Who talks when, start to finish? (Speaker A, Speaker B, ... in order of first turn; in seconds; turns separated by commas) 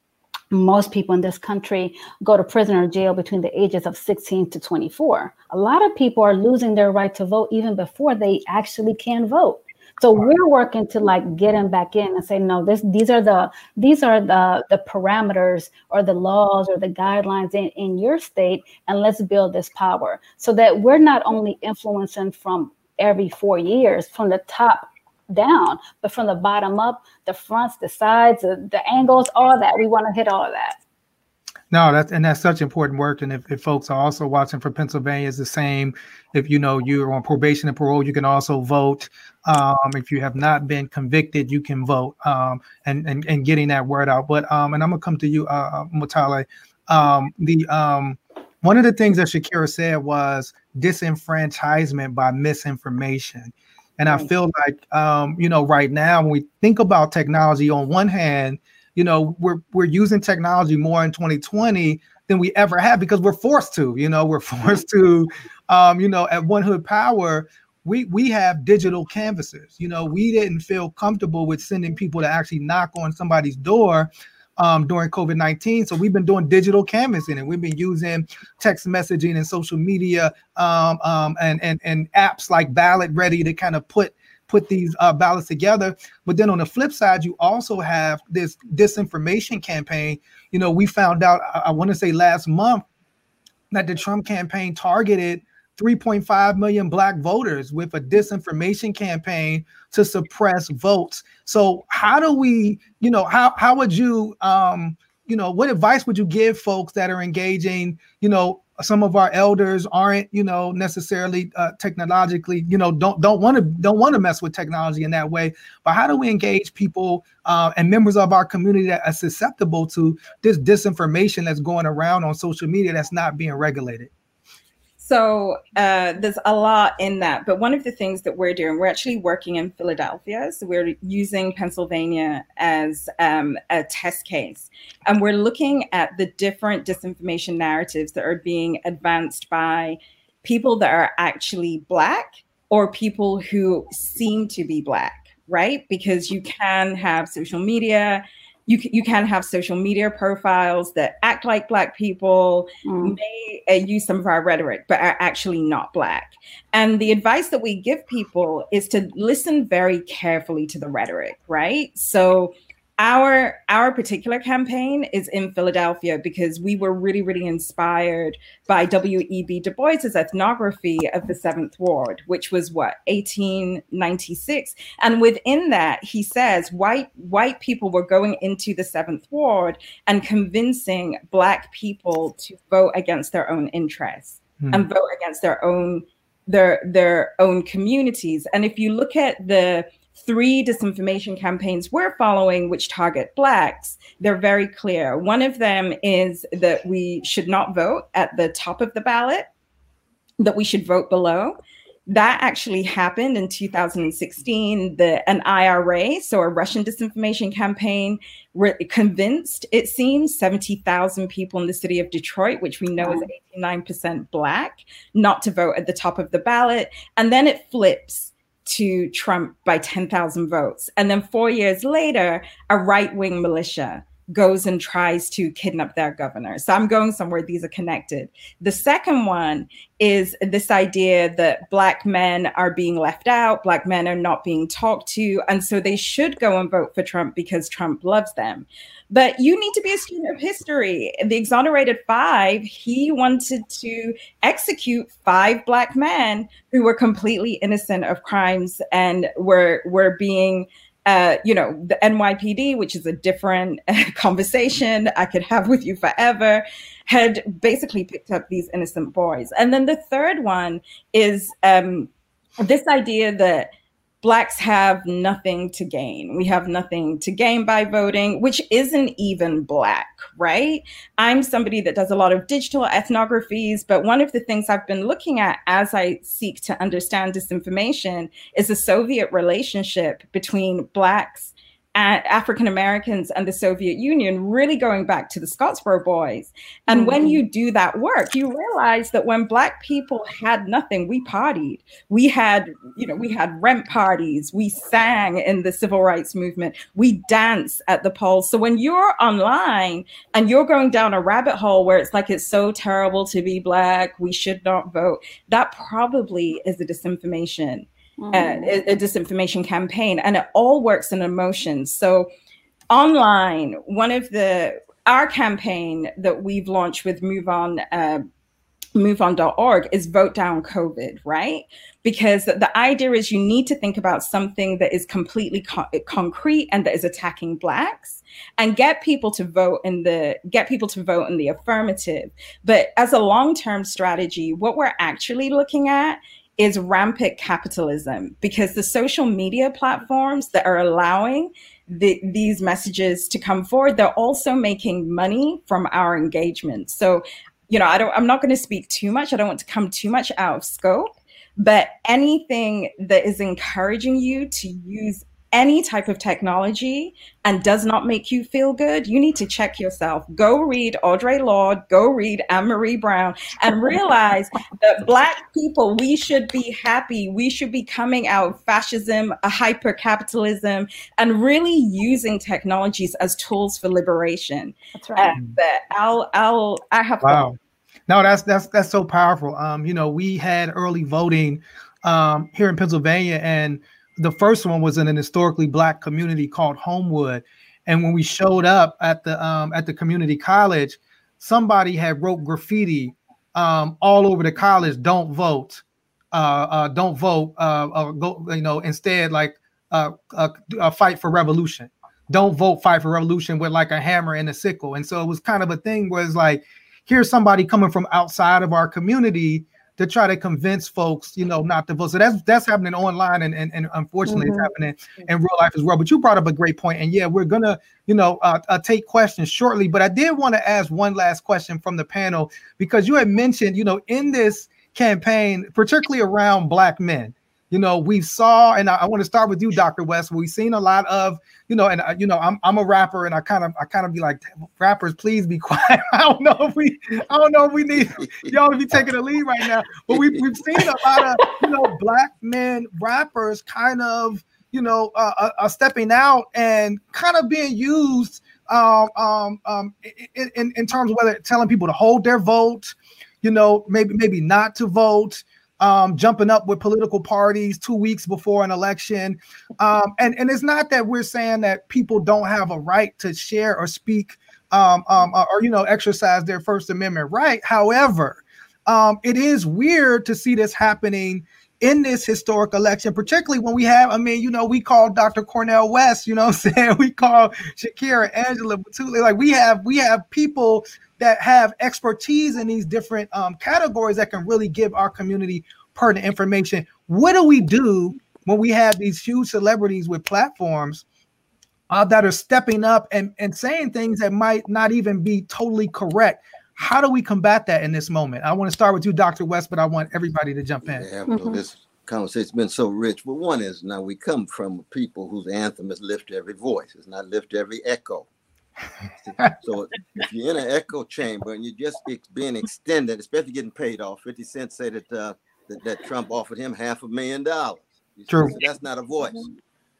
Speaker A: 0.5-30.8, Speaker B: 31.7-92.8, Speaker B: 93.7-124.1, Speaker C: 125.0-199.5, Speaker A: 152.8-153.2, Speaker B: 184.6-184.9, Speaker C: 200.4-201.6, Speaker C: 202.1-263.7, Speaker A: 213.0-213.3, Speaker C: 264.2-312.3, Speaker A: 286.9-287.4, Speaker A: 308.2-308.7, Speaker C: 312.9-318.3, Speaker C: 318.9-377.5, Speaker A: 374.9-375.3, Speaker B: 377.2-377.6, Speaker B: 378.1-491.0, Speaker A: 414.3-414.7, Speaker D: 438.2-438.5, Speaker D: 440.1-440.4, Speaker B: 491.9-501.1, Speaker D: 500.9-508.3, Speaker A: 501.3-501.6, Speaker D: 509.2-519.5, Speaker B: 518.3-518.6